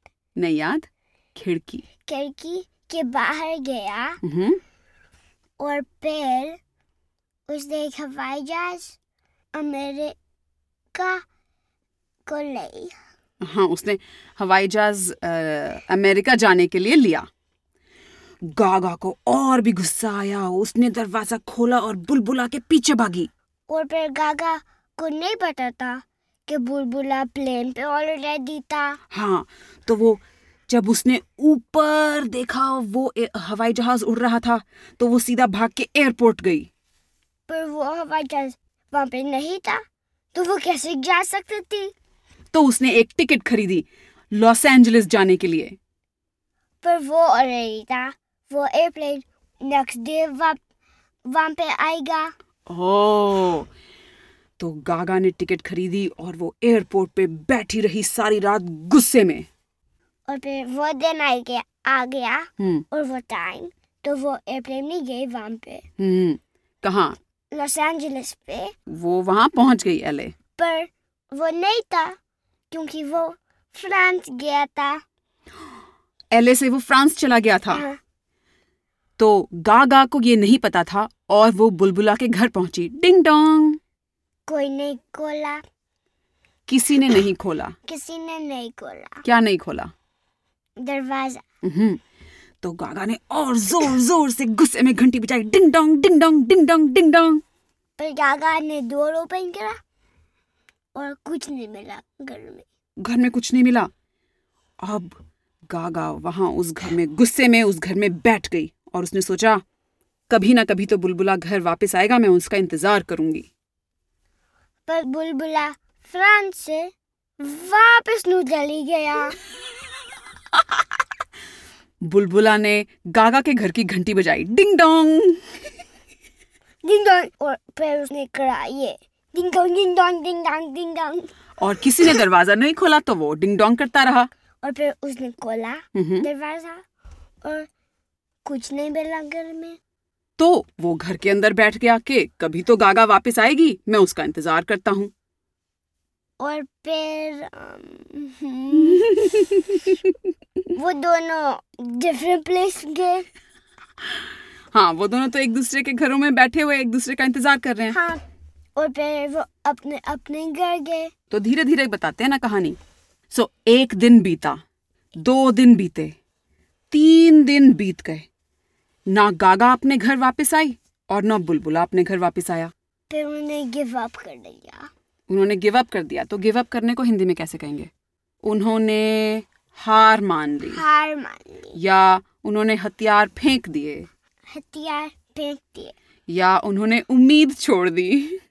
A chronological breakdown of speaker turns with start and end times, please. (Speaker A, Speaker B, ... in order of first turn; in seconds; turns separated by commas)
Speaker A: 0.4-1.8, Speaker B: 2.1-4.2, Speaker A: 4.2-4.6, Speaker B: 5.6-6.6, Speaker B: 7.5-9.0, Speaker B: 9.6-10.2, Speaker B: 10.9-11.2, Speaker B: 12.3-12.9, Speaker A: 13.4-17.3, Speaker A: 18.5-23.3, Speaker B: 23.7-29.0, Speaker A: 29.1-36.7, Speaker B: 37.5-39.8, Speaker B: 40.3-41.9, Speaker A: 42.5-45.8, Speaker B: 46.8-50.6, Speaker B: 51.3-52.3, Speaker A: 52.7-53.7, Speaker A: 54.6-59.5, Speaker B: 60.3-65.8, Speaker A: 62.6-62.9, Speaker A: 66.0-67.2, Speaker B: 67.5-68.7, Speaker A: 68.9-70.3, Speaker B: 70.6-72.2, Speaker B: 72.7-75.0, Speaker A: 76.3-77.8, Speaker B: 77.7-78.0, Speaker A: 79.2-83.8, Speaker B: 84.5-85.6, Speaker A: 86.7-87.8, Speaker B: 87.9-89.2, Speaker A: 89.2-89.9, Speaker B: 90.8-91.4, Speaker A: 91.6-92.0, Speaker A: 92.6-97.4, Speaker B: 98.0-99.8, Speaker B: 101.0-102.7, Speaker A: 103.0-103.9, Speaker A: 104.8-105.2, Speaker A: 105.7-109.6, Speaker A: 110.3-113.5, Speaker B: 114.9-119.4, Speaker A: 122.0-125.4, Speaker B: 126.8-131.3, Speaker A: 131.6-134.3, Speaker B: 134.6-136.8, Speaker A: 135.9-136.3, Speaker B: 137.4-137.7, Speaker B: 138.5-139.8, Speaker A: 140.4-145.1, Speaker B: 146.4-149.1, Speaker A: 148.9-149.8, Speaker B: 150.8-153.3, Speaker A: 154.7-158.0, Speaker B: 157.9-158.2, Speaker B: 158.8-161.1, Speaker A: 161.3-162.8, Speaker A: 163.3-164.6, Speaker A: 165.2-166.1, Speaker A: 166.9-168.2, Speaker A: 169.1-172.7, Speaker B: 173.1-174.9, Speaker A: 175.3-177.9, Speaker A: 178.4-180.8, Speaker B: 180.7-181.8, Speaker A: 181.8-184.1, Speaker B: 184.5-185.9, Speaker A: 186.3-188.4